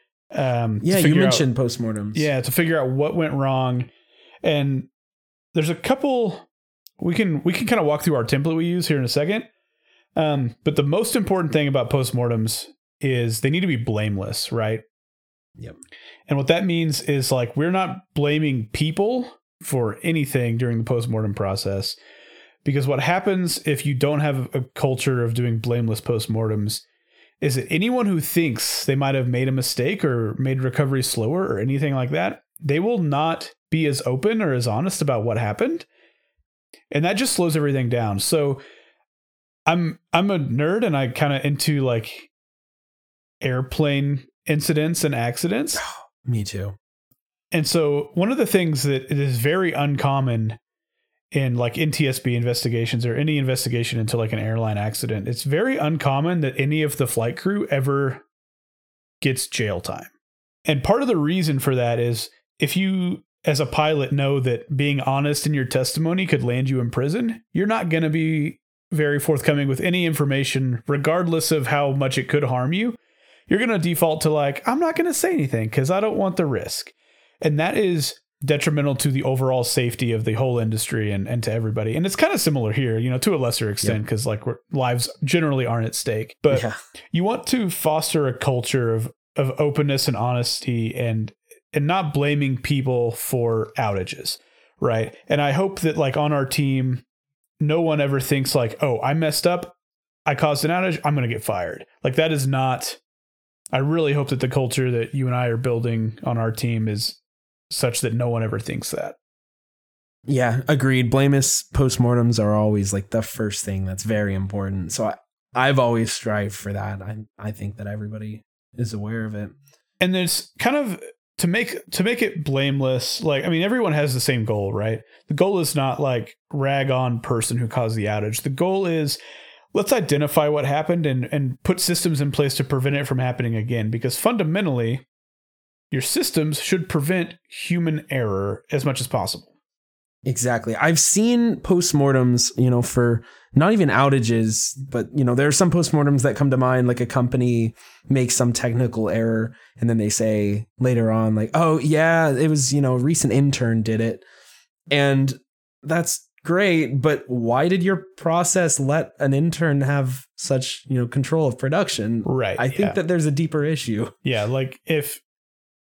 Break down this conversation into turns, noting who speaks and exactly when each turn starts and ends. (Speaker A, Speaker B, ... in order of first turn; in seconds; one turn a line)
Speaker A: 0.3-1.4
Speaker B: 0.8-2.3
Speaker A: 2.1-3.9
Speaker A: 4.4-4.9
Speaker A: 5.5-6.5
Speaker A: 7.0-9.5
Speaker A: 10.2-14.8
Speaker A: 16.3-22.0
Speaker A: 22.6-26.8
Speaker A: 27.4-35.9
Speaker A: 36.9-38.6
Speaker A: 39.7-42.3
Speaker A: 43.4-45.8
Speaker B: 45.8-46.8
Speaker A: 47.5-50.6
Speaker A: 51.3-58.2
Speaker A: 59.2-60.1
Speaker A: 60.6-73.0
Speaker A: 73.5-97.0
Speaker B: 86.5-86.8
Speaker A: 97.6-99.7
Speaker A: 100.2-103.0
Speaker A: 103.7-107.2
Speaker A: 107.7-109.2
Speaker B: 110.3-119.5
Speaker A: 120.0-129.2
Speaker A: 129.7-135.0
Speaker A: 135.9-139.5
Speaker B: 140.2-154.2
Speaker B: 154.9-164.2
Speaker A: 162.2-163.0
Speaker A: 164.2-165.2